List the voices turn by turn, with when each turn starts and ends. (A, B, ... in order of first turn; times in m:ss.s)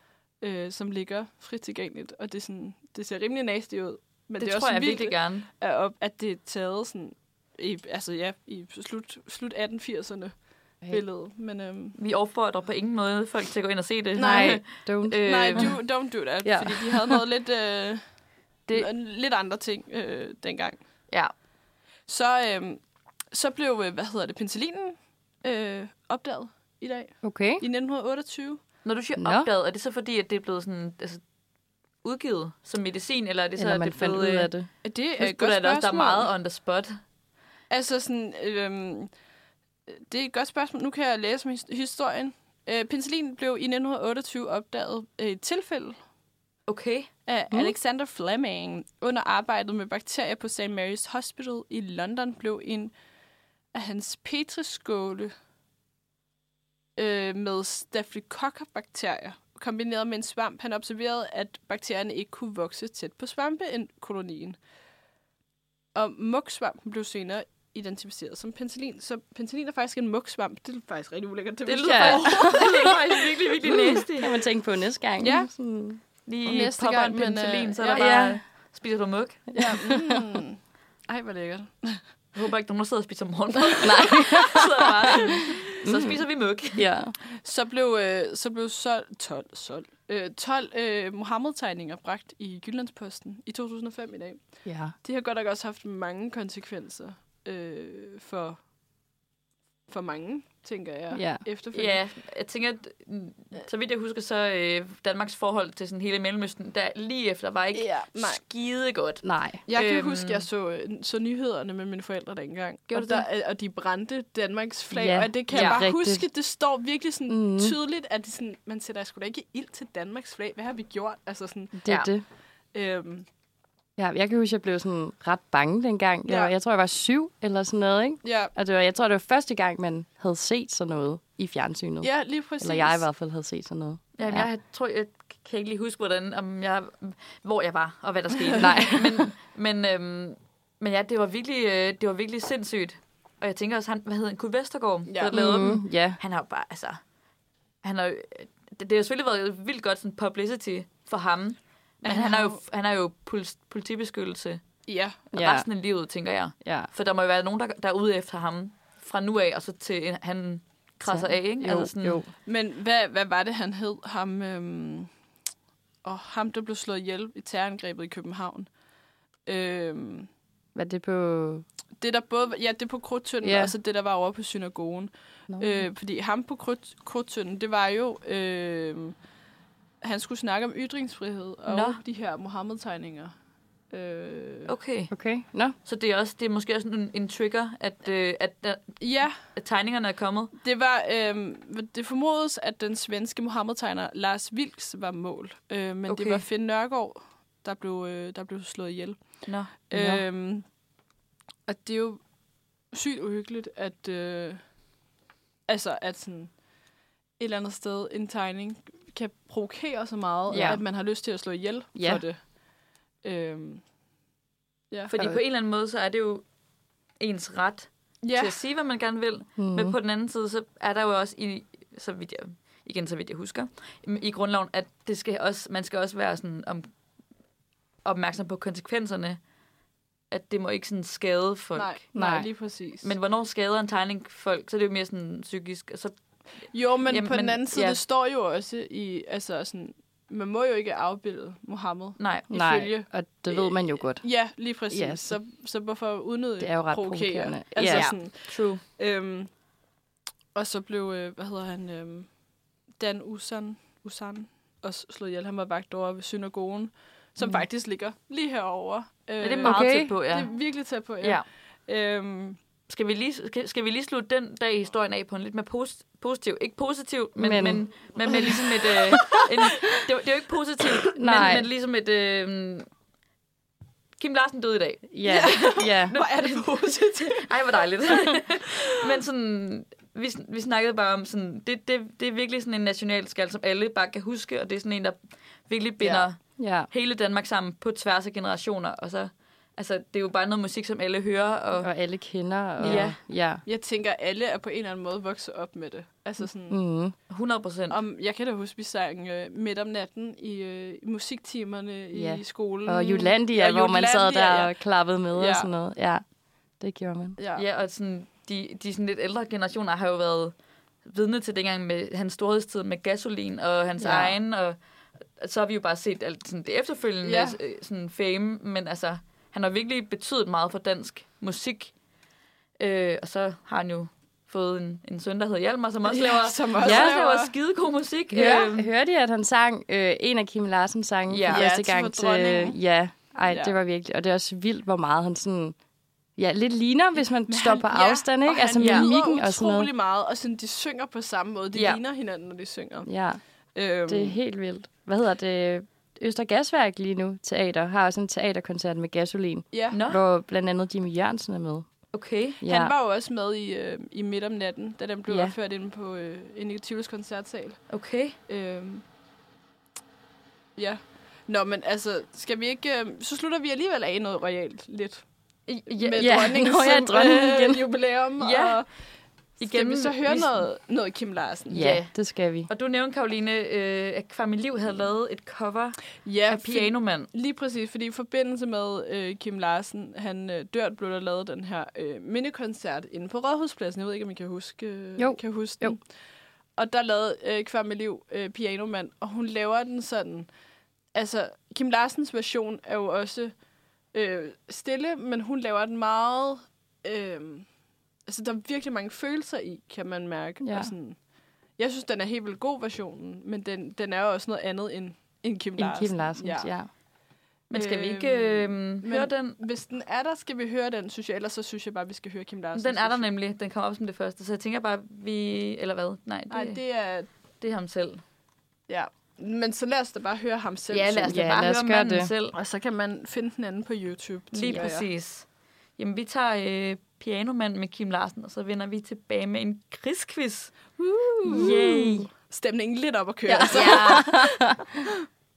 0:00.4-0:12.0 A
0:04.4-0:05.5 B
0:12.0-0:15.7 B
0:14.2-0:14.6 A
0:14.2-0:15.8 C
0:15.2-0:18.0 A
0:16.4-0:17.2 C
0:18.7-0:20.8 A
0:22.1-0:22.8 A
0:23.3-0:28.6 A
0:27.2-0:27.6 C
0:28.8-0:31.2 B
0:29.2-0:29.5 C
0:32.0-0:34.5 B
0:33.6-0:34.7 C
0:34.8-0:36.3 A
0:35.2-0:37.0 B
0:37.7-0:39.1 A
0:39.9-0:46.0 A
0:46.7-0:47.1 B
0:47.2-0:52.9 A
0:53.7-0:55.3 A
0:57.0-1:04.6 A
1:05.9-1:13.0 A
1:11.6-1:14.3 B
1:11.8-1:12.9 C
1:13.6-1:16.0 C
1:15.2-1:15.5 A
1:16.2-1:19.4 B
1:16.4-1:18.2 A
1:17.9-1:18.4 C
1:19.5-1:20.2 C
1:19.6-1:22.0 A
1:22.3-1:26.8 B
1:23.8-1:26.2 C
1:26.7-1:27.1 C
1:27.3-1:38.6 A
1:34.6-1:34.9 C
1:39.9-1:42.0 A
1:41.1-1:41.4 C
1:41.7-1:50.4 B
1:47.7-1:48.4 A
1:49.2-1:49.6 C
1:49.7-2:01.8 A
1:52.9-1:53.2 B
1:54.9-1:56.2 C
1:55.5-1:55.8 B
1:57.3-1:57.7 C
2:01.8-2:02.2 C
2:01.8-2:02.1 B
2:02.7-2:03.3 A
2:04.0-2:14.5 C
2:06.3-2:06.5 A
2:08.2-2:08.5 A
2:12.0-2:13.0 A
2:14.2-2:27.0 B
2:18.6-2:19.2 C
2:25.1-2:25.4 A
2:25.3-2:26.2 C
2:27.8-2:34.6 B
2:32.0-2:32.6 A
2:34.9-2:35.2 A
2:35.3-2:42.2 B
2:35.3-2:35.7 C
2:36.6-2:36.9 C
2:41.0-2:42.3 C
2:42.4-2:45.1 A
2:46.0-2:48.7 A
2:49.4-2:50.3 A
2:50.7-2:51.6 C
2:52.0-2:59.2 A
2:53.4-2:53.7 C
2:55.5-2:55.8 C
3:00.0-3:03.3 A
3:01.7-3:02.0 B
3:03.9-3:04.7 A
3:04.6-3:05.1 B
3:05.1-3:05.7 C
3:05.8-3:10.5 B
3:09.0-3:09.4 A
3:10.6-3:20.6 A
3:16.1-3:16.4 B
3:19.4-3:19.7 B
3:19.9-3:20.2 C
3:21.7-3:22.2 A
3:22.9-3:24.6 A
3:25.7-3:26.5 A
3:27.4-3:32.4 A
3:30.5-3:30.8 B
3:30.5-3:30.8 C
3:31.9-3:32.2 C
3:33.2-3:33.8 A
3:34.9-3:35.4 A
3:35.1-3:36.4 B
3:37.2-3:46.9 B
3:38.2-3:38.6 A
3:39.6-3:39.9 C
3:48.0-3:49.4 B
3:50.3-3:52.0 B
3:51.7-3:53.1 A
3:52.1-3:52.5 C
3:53.0-3:56.2 B
3:56.7-4:09.5 A
3:57.0-3:58.0 B
4:02.2-4:02.5 B
4:02.5-4:04.3 C
4:04.9-4:05.4 C
4:06.6-4:08.1 C
4:07.8-4:08.8 B
4:10.5-4:12.3 A
4:13.0-4:22.6 A
4:19.4-4:20.5 B
4:19.6-4:20.1 C
4:21.2-4:21.4 B
4:22.9-4:32.9 B
4:27.4-4:28.5 C
4:31.2-4:31.7 C
4:34.2-4:45.2 B
4:35.1-4:36.1 C
4:35.2-4:37.5 A
4:38.0-4:38.4 A
4:45.7-4:51.9 B
4:46.0-4:46.3 A
4:46.6-4:46.9 C
4:51.8-4:53.6 C
4:52.8-4:53.2 B
4:52.8-4:53.1 A
4:53.6-4:56.8 A
4:56.7-4:57.1 C
4:57.3-4:58.0 B
4:57.9-5:04.7 A
5:02.1-5:06.2 C
5:05.3-5:05.7 A
5:06.8-5:07.4 C
5:07.4-5:07.6 A
5:07.6-5:10.5 B
5:11.0-5:14.8 B
5:14.0-5:14.3 C
5:15.4-5:21.9 B
5:17.2-5:17.6 A
5:22.8-5:28.9 B
5:26.0-5:27.5 A
5:26.8-5:27.1 C
5:28.3-5:35.8 C
5:28.4-5:28.7 A
5:31.3-5:31.6 B
5:31.5-5:32.8 A
5:33.5-5:33.8 A
5:36.4-5:39.9 C
5:37.5-5:43.1 A
5:38.8-5:39.1 B
5:41.7-5:42.0 B
5:43.0-5:43.4 C
5:43.7-5:44.4 A
5:44.1-5:51.8 C
5:49.7-5:50.0 A
5:49.9-5:50.2 B
5:52.1-5:52.6 B
5:52.6-5:52.9 C
5:52.6-5:57.8 A
5:55.3-5:55.5 C
5:57.9-5:58.4 B
5:58.5-5:59.0 A
6:00.8-6:05.2 A
6:05.7-6:06.4 B
6:05.9-6:08.9 A
6:06.1-6:07.8 C
6:08.4-6:08.8 B
6:09.6-6:10.6 B
6:09.6-6:11.9 A
6:11.7-6:12.7 C
6:11.7-6:12.1 B
6:12.7-6:17.3 B
6:16.2-6:26.0 A
6:25.2-6:26.0 C
6:26.8-6:30.5 A
6:31.1-6:33.5 A
6:34.1-6:37.7 A
6:38.2-6:41.2 A
6:40.6-6:40.9 C
6:41.8-6:46.7 A
6:45.8-6:46.9 C
6:47.7-6:49.6 B
6:47.7-6:53.3 A
6:52.7-6:56.8 B
6:56.5-6:57.3 A
6:57.6-6:58.2 B
6:58.9-7:01.5 A
7:00.9-7:02.6 B
7:01.3-7:02.3 C
7:02.5-7:05.0 A
7:04.5-7:05.4 B
7:06.0-7:10.7 B
7:11.0-7:12.2 C
7:11.4-7:11.8 A
7:11.4-7:12.3 B
7:12.4-7:14.6 A
7:13.5-7:14.9 C
7:13.7-7:14.3 B